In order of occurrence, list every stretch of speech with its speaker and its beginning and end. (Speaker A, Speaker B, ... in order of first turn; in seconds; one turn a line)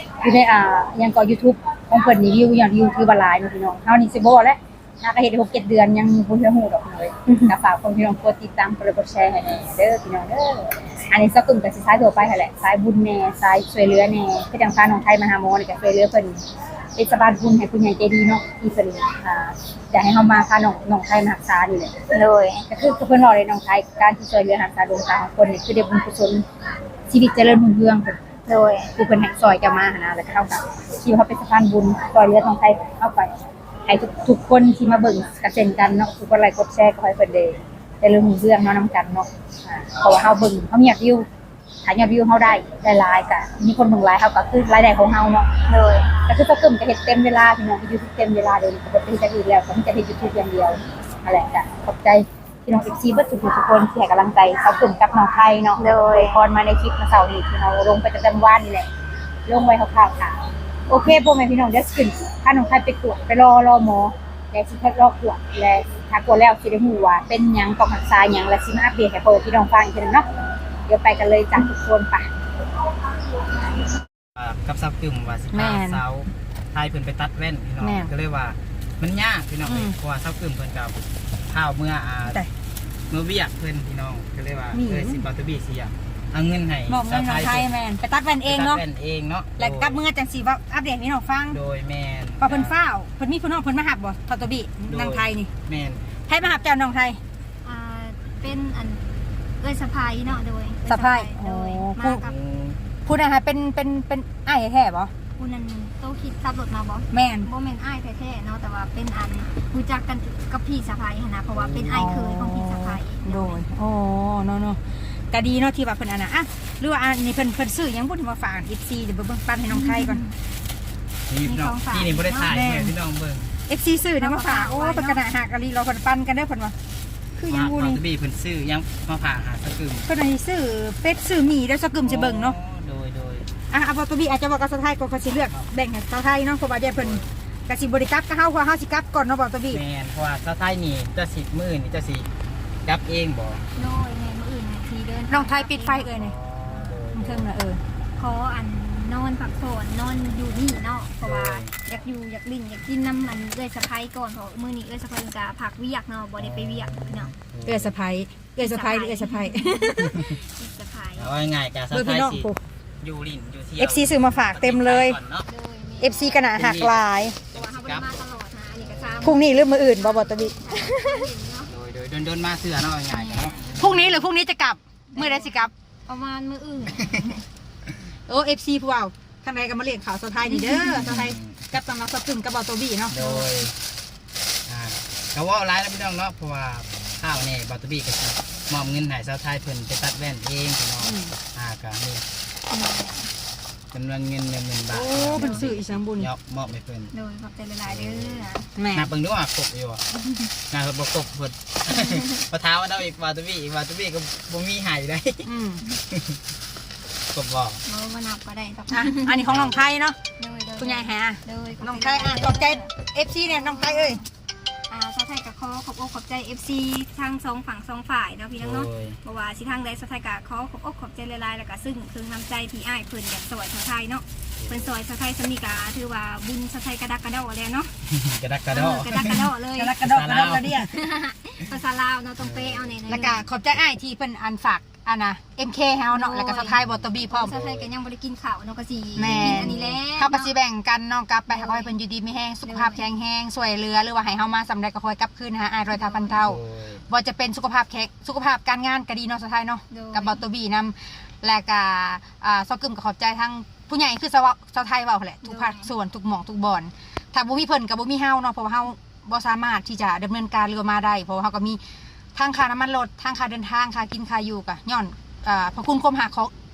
Speaker A: 0.2-16.4
Speaker A: 16.9-22.0
Speaker B: 22.1-22.6
Speaker A: 22.7-26.4
Speaker A: 27.1-28.2
Speaker B: 28.5-28.9
Speaker A: 28.9-33.3
Speaker A: 33.9-41.3
Speaker A: 41.8-45.5
Speaker B: 45.7-46.1
Speaker A: 46.1-58.9
Speaker B: 55.8-56.4
Speaker A: 59.5-70.3
Speaker A: 70.9-72.3
Speaker C: 74.3-82.4
Speaker D: 75.5-76.0
Speaker D: 77.8-78.1
Speaker D: 79.7-79.9
Speaker C: 83.1-87.7
Speaker D: 84.7-85.2
Speaker D: 86.9-88.8
Speaker C: 88.4-90.0
Speaker D: 89.6-91.6
Speaker C: 91.5-92.7
Speaker D: 92.4-95.5
Speaker C: 94.9-96.0
Speaker D: 96.3-97.2
Speaker E: 97.6-99.0
Speaker E: 99.6-102.3
Speaker D: 100.9-102.2
Speaker C: 102.2-102.8
Speaker D: 103.0-105.1
Speaker E: 105.4-113.6
Speaker D: 107.1-107.5
Speaker C: 111.5-112.2
Speaker D: 111.9-114.8
Speaker D: 115.3-120.2
Speaker E: 119.7-120.3
Speaker C: 121.3-123.5
Speaker E: 121.5-122.5
Speaker D: 122.4-122.9
Speaker D: 123.7-126.7
Speaker E: 124.2-125.2
Speaker D: 127.4-128.0
Speaker C: 127.5-130.1
Speaker D: 130.1-132.6
Speaker C: 132.0-133.5
Speaker D: 133.7-139.8
Speaker C: 136.9-137.3
Speaker C: 139.7-142.3
Speaker C: 142.8-143.6
Speaker E: 143.7-147.0
Speaker D: 145.3-146.3
Speaker C: 146.2-147.5
Speaker D: 147.1-147.8
Speaker E: 148.2-157.3
Speaker C: 151.2-151.7
Speaker C: 156.4-157.9
Speaker D: 157.7-160.2
Speaker E: 158.6-161.4
Speaker C: 161.2-162.5
Speaker D: 161.9-162.6
Speaker C: 163.0-165.4
Speaker D: 163.8-165.2
Speaker E: 165.5-166.4
Speaker D: 166.0-167.4
Speaker C: 166.5-168.1
Speaker E: 167.5-171.7
Speaker C: 168.8-169.4
Speaker D: 169.2-171.2
Speaker C: 171.7-174.2
Speaker E: 173.1-173.8
Speaker D: 173.8-175.7
Speaker E: 175.1-177.4
Speaker D: 178.3-183.4
Speaker E: 180.5-181.2
Speaker C: 181.0-181.6
Speaker C: 183.1-183.7
Speaker C: 184.7-192.2
Speaker D: 191.0-191.3
Speaker E: 192.7-193.3
Speaker C: 193.9-197.1
Speaker D: 194.9-196.3
Speaker E: 197.1-198.7
Speaker C: 197.8-200.0
Speaker D: 198.8-199.1
Speaker E: 200.2-200.5
Speaker C: 200.7-205.5
Speaker E: 201.9-202.4
Speaker D: 205.4-205.8
Speaker C: 206.1-206.4
Speaker C: 207.3-207.8
Speaker E: 207.8-209.6
Speaker D: 208.9-210.2
Speaker C: 209.5-209.8
Speaker E: 210.4-212.9
Speaker D: 210.8-214.2
Speaker E: 213.4-214.2
Speaker E: 214.9-227.9
Speaker C: 218.6-219.2
Speaker C: 224.6-224.9
Speaker C: 228.1-230.8
Speaker E: 228.7-230.0
Speaker D: 229.8-230.9
Speaker E: 230.9-233.4
Speaker C: 232.4-233.3
Speaker D: 233.1-237.5
Speaker E: 236.1-236.8
Speaker C: 236.7-237.9
Speaker E: 237.3-240.5
Speaker D: 239.2-261.8
Speaker C: 239.2-240.0
Speaker E: 241.5-241.9
Speaker E: 242.7-243.0
Speaker E: 245.9-246.4
Speaker C: 246.4-247.0
Speaker E: 249.9-250.4
Speaker E: 255.4-255.9
Speaker D: 262.3-266.5